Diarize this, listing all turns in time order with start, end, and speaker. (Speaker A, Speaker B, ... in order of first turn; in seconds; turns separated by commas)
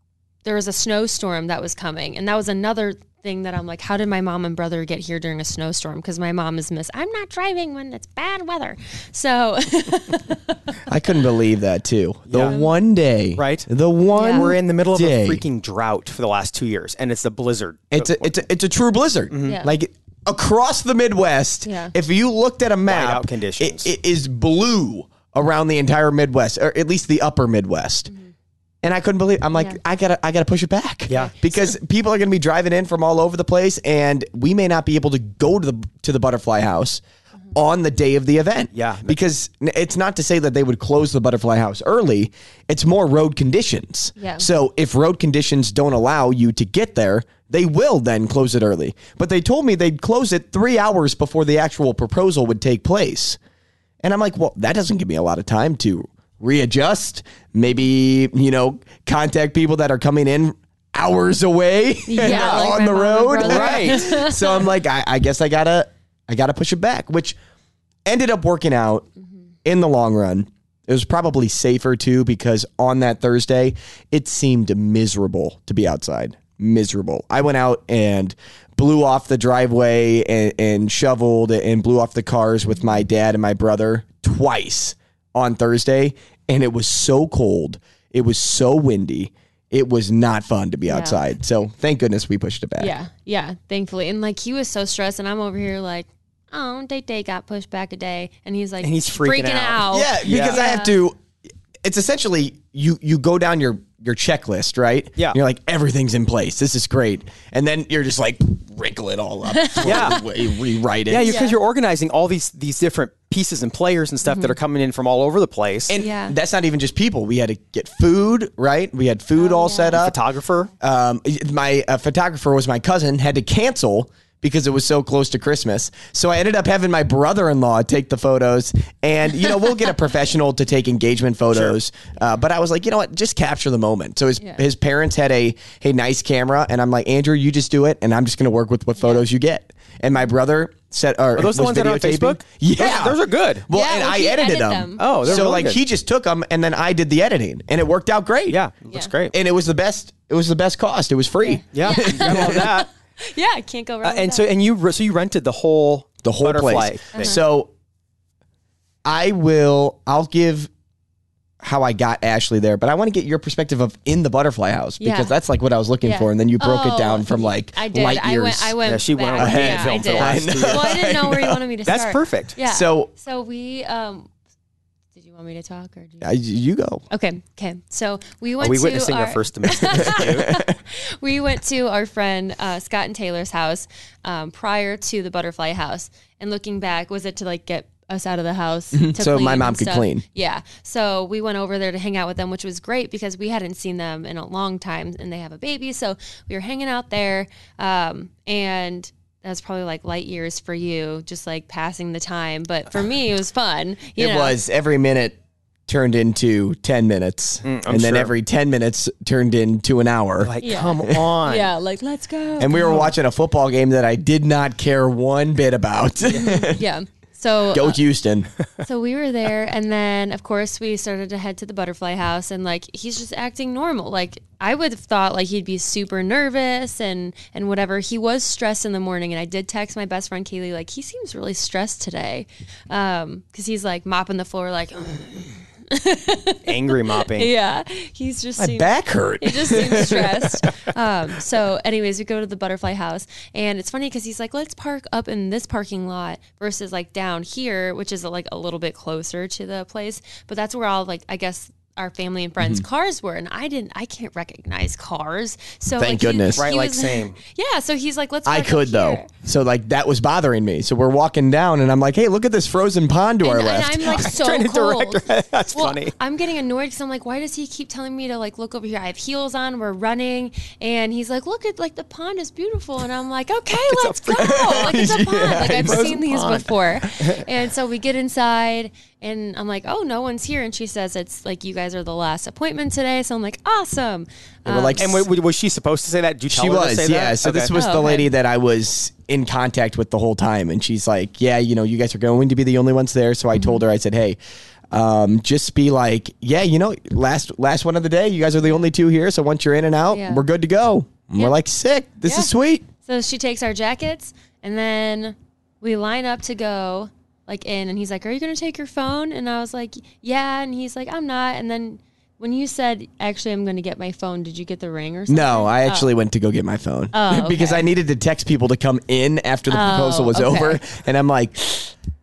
Speaker A: 0.5-10.6, Speaker B: 10.9-15.4, Speaker C: 12.3-12.6, Speaker A: 12.4-12.7, Speaker C: 13.4-13.7, Speaker A: 14.1-14.6, Speaker C: 14.2-18.4, Speaker B: 17.9-28.1, Speaker C: 19.3-19.6, Speaker A: 19.5-19.8, Speaker A: 21.7-21.9, Speaker C: 22.9-23.9, Speaker B: 28.8-37.0, Speaker B: 37.5-53.4, Speaker C: 38.7-39.1, Speaker A: 44.2-44.5, Speaker B: 54.0-67.4, Speaker A: 62.1-64.7, Speaker C: 62.2-62.7, Speaker C: 63.4-64.2, Speaker B: 68.1-69.1, Speaker B: 69.7-92.9, Speaker A: 90.9-91.2, Speaker A: 92.8-101.0, Speaker C: 98.8-100.6, Speaker B: 99.9-101.2, Speaker B: 101.8-111.4, Speaker A: 109.5-110.2, Speaker C: 109.8-110.2, Speaker C: 111.1-115.9, Speaker A: 111.2-111.6, Speaker A: 114.3-114.5, Speaker B: 115.9-120.2, Speaker A: 116.0-116.4, Speaker A: 119.4-120.0, Speaker C: 119.9-120.7, Speaker B: 120.8-148.6, Speaker C: 141.4-143.7, Speaker A: 143.7-145.7, Speaker C: 145.0-145.8, Speaker C: 148.5-149.3, Speaker B: 149.3-152.7, Speaker A: 151.4-154.4, Speaker C: 151.7-152.9, Speaker C: 154.0-157.3, Speaker B: 156.2-157.7, Speaker A: 157.1-157.4, Speaker B: 159.1-160.7, Speaker B: 161.6-168.8, Speaker A: 165.0-165.3, Speaker A: 166.0-174.3, Speaker C: 168.8-171.0, Speaker B: 169.4-171.6, Speaker C: 171.9-172.6, Speaker B: 172.7-173.1, Speaker A: 175.2-176.3, Speaker B: 176.2-177.0, Speaker A: 177.1-204.6, Speaker C: 178.6-180.5, Speaker B: 180.0-180.8, Speaker B: 188.9-190.2, Speaker B: 204.2-210.5, Speaker C: 207.6-208.3, Speaker C: 210.4-211.7, Speaker A: 210.6-213.1, Speaker B: 212.6-216.8, Speaker A: 216.3-218.0, Speaker B: 217.7-218.5, Speaker A: 218.8-259.3, Speaker C: 236.7-237.5, Speaker B: 238.6-240.7, Speaker B: 256.0-256.7, Speaker C: 256.6-257.4, Speaker B: 258.5-264.3, Speaker A: 263.4-285.2, Speaker C: 264.1-266.1, Speaker C: 273.9-274.9, Speaker B: 274.3-276.3, Speaker C: 275.6-277.4, Speaker B: 284.7-285.3, Speaker C: 285.0-287.7, Speaker B: 286.5-294.4, Speaker A: 287.7-288.3, Speaker A: 293.6-293.8, Speaker B: 294.9-302.9, Speaker A: 300.1-300.4, Speaker A: 302.2-302.5, Speaker A: 303.0-316.1, Speaker B: 315.3-321.9, Speaker A: 317.1-317.9, Speaker A: 319.7-320.8